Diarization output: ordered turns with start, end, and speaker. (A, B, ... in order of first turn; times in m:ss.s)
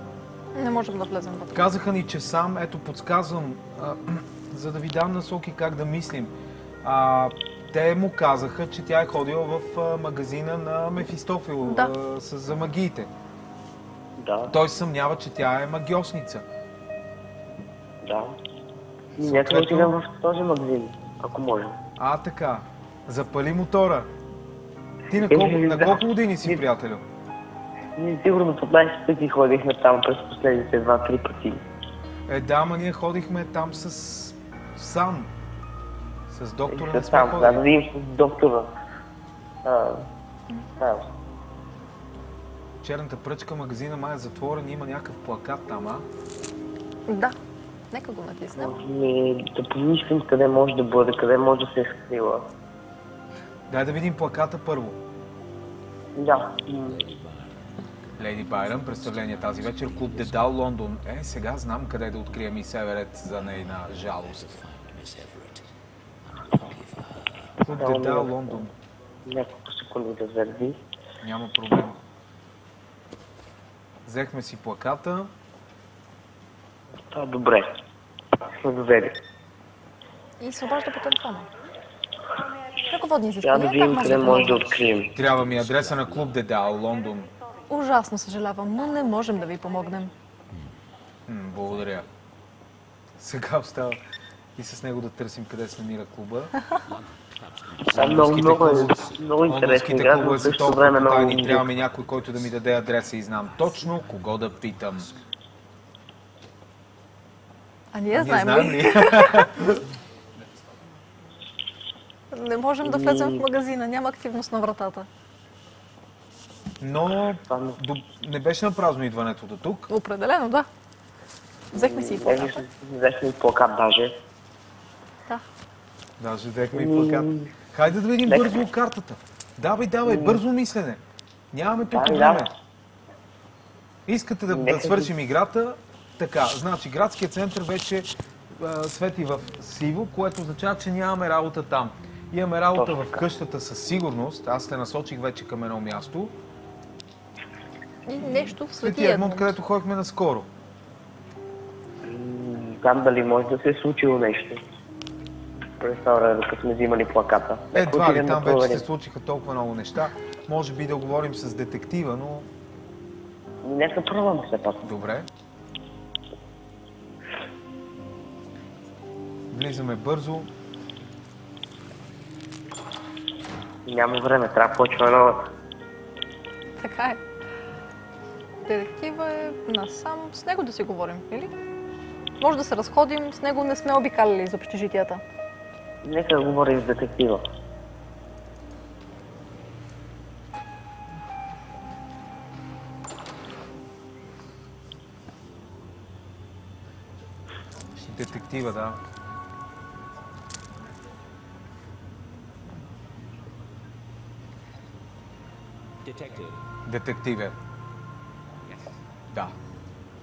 0:00.6-0:01.7 A
0:01.5-0:13.1 B
0:11.6-0:11.9 A
0:14.2-0:14.5 C
0:14.5-0:16.4 B
0:18.0-0:18.4 C
0:19.2-0:21.8 C
0:19.2-0:20.0 B
0:22.0-0:24.1 B
0:25.1-0:27.0 B
0:25.1-0:26.6 C
0:28.0-0:31.6 C
0:32.3-0:35.3 B
0:36.3-0:37.7 B
0:36.7-0:38.7 C
0:39.6-0:40.1 C
0:42.8-0:46.1 B
0:47.1-0:47.4 A
0:47.9-0:48.7 A
0:48.6-0:52.5 C
0:53.7-0:55.0 B
0:56.2-0:57.0 C
0:56.9-1:00.5 D
0:58.2-1:04.5 B
1:03.7-1:05.6 D
1:06.3-1:07.6 D
1:07.6-1:08.7 B
1:07.7-1:08.6 C
1:09.3-1:10.8 C
1:11.2-1:12.0 B
1:14.1-1:15.3 B
1:17.1-1:17.7 C
1:18.6-1:19.2 C
1:20.4-1:21.5 A
1:22.8-1:24.7 A
1:23.4-1:25.1 C
1:24.5-1:26.4 D
1:25.2-1:27.3 B
1:27.7-1:30.1 A
1:31.3-1:32.1 B
1:33.2-1:34.0 B
1:34.6-1:36.5 B
1:36.9-1:39.2 D
1:37.9-1:45.1 B
1:37.9-1:41.7 C
1:40.8-1:42.7 D
1:43.4-1:45.2 D
1:47.9-1:49.7 A
1:48.1-1:49.8 B
1:52.3-1:55.1 A
1:52.8-1:53.4 C
1:56.8-1:59.9 B
1:57.5-1:57.8 C
1:59.9-2:00.7 A
2:01.7-2:02.6 A
2:01.7-2:04.2 C
2:06.2-2:11.0 B
2:06.7-2:07.5 C
2:08.3-2:08.6 C
2:10.1-2:10.4 C
2:11.5-2:12.5 B
2:11.8-2:12.5 C
2:14.1-2:26.4 B
2:14.5-2:15.1 C
2:22.7-2:23.2 C
2:28.1-2:29.6 A
2:28.8-2:30.5 B
2:32.0-2:34.6 C
2:35.8-2:38.8 C
2:37.7-2:42.5 B
2:43.6-2:44.8 C
2:44.8-2:45.3 B
2:49.5-2:50.5 B
2:53.9-2:55.4 C
2:56.8-2:57.2 A
2:58.6-3:01.5 A
3:02.4-3:05.2 A
3:06.0-3:07.4 C
3:18.0-3:19.0 B
3:26.0-3:26.6 D
3:26.9-3:27.6 B